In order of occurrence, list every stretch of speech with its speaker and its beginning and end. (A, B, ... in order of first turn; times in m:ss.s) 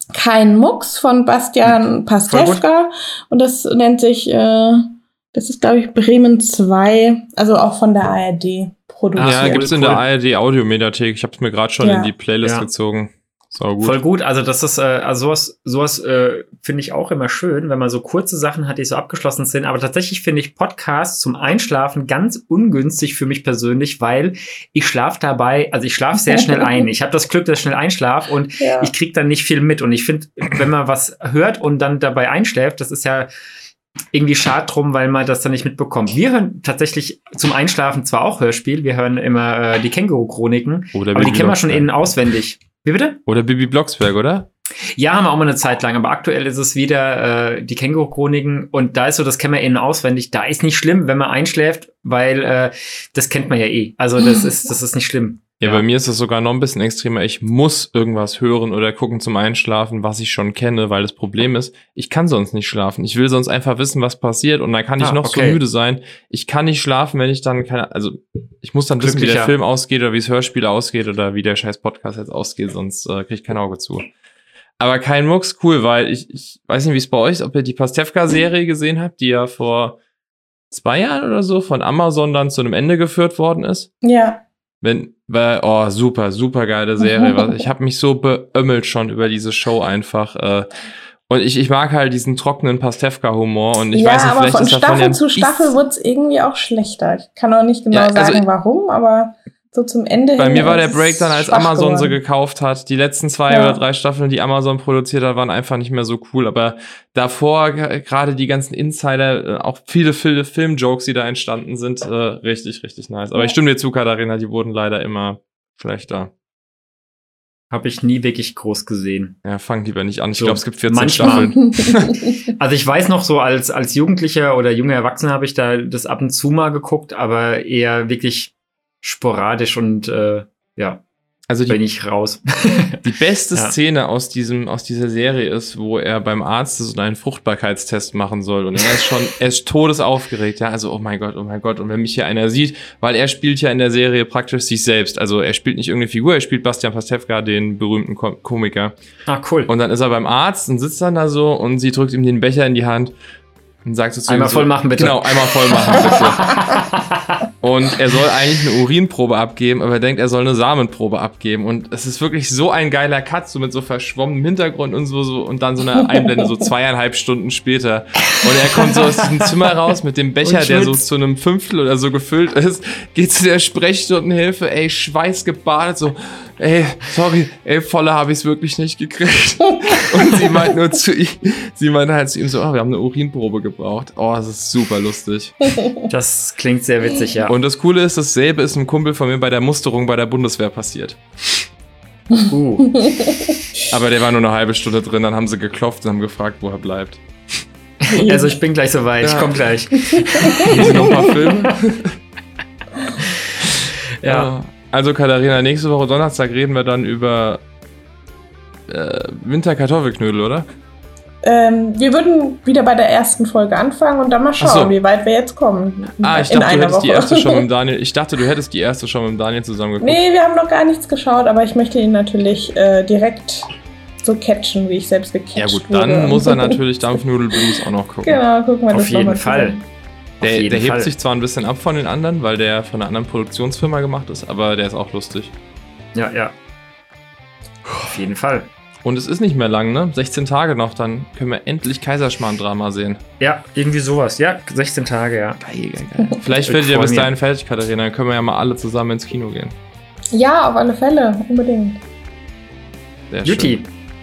0:00.1-0:09.8 A
0:02.3-0:02.6 B
0:09.2-0:10.0 B
0:09.2-0:14.0 C
0:11.8-0:12.1 A
0:12.4-0:12.7 B
0:13.8-0:33.3 B
0:26.2-0:26.8 A
0:28.6-0:28.9 A
0:34.1-0:43.2 B
0:40.9-0:41.9 C
0:43.3-0:44.5 C
0:45.0-0:55.9 B
0:55.6-1:14.1 C
1:05.0-1:05.6 B
1:09.0-1:09.6 B
1:14.8-1:20.0 C
1:20.7-1:23.9 C
1:24.0-1:24.4 A
1:24.8-1:30.7 C
1:27.0-1:27.6 A
1:31.3-1:35.8 C
1:33.9-1:42.2 A
1:37.9-1:38.4 C
1:40.4-1:56.3 C
1:43.5-1:43.8 A
1:57.7-1:59.4 B
1:59.4-2:02.2 C
2:00.4-2:01.5 B
2:01.4-2:02.0 A
2:02.6-2:11.0 B
2:11.5-2:11.8 C
2:11.7-2:13.8 B
2:13.0-2:28.9 C
2:29.3-2:29.7 B
2:29.7-2:33.2 C
2:33.8-2:36.6 C
2:34.3-2:37.4 B
2:37.6-3:05.7 C
2:48.3-2:49.5 B
2:50.4-2:51.0 B
3:06.1-3:07.5 B
3:07.5-3:11.7 C
3:12.5-3:13.0 B
3:13.0-3:13.3 A
3:13.9-3:17.2 C
3:18.0-3:21.3 B
3:18.1-3:18.5 A
3:19.2-3:19.6 C
3:20.3-3:21.5 A
3:20.6-3:22.2 C
3:23.2-3:24.5 B
3:24.3-3:27.6 C
3:28.9-3:30.7 C
3:31.4-3:37.6 A
3:34.6-3:35.0 C
3:36.2-3:40.2 C
3:40.0-3:43.7 A
3:44.2-3:46.8 A
3:45.6-3:48.4 C
3:48.2-3:49.8 A
3:48.9-3:49.8 B
3:50.4-3:51.1 B
3:50.4-3:55.5 C
3:56.2-3:56.6 B
3:58.0-3:58.7 B
3:59.0-4:03.2 C
4:03.4-4:05.6 B
4:05.6-4:09.8 C
4:06.5-4:07.3 B
4:10.3-4:12.0 A
4:13.3-4:13.8 C
4:13.4-4:13.9 B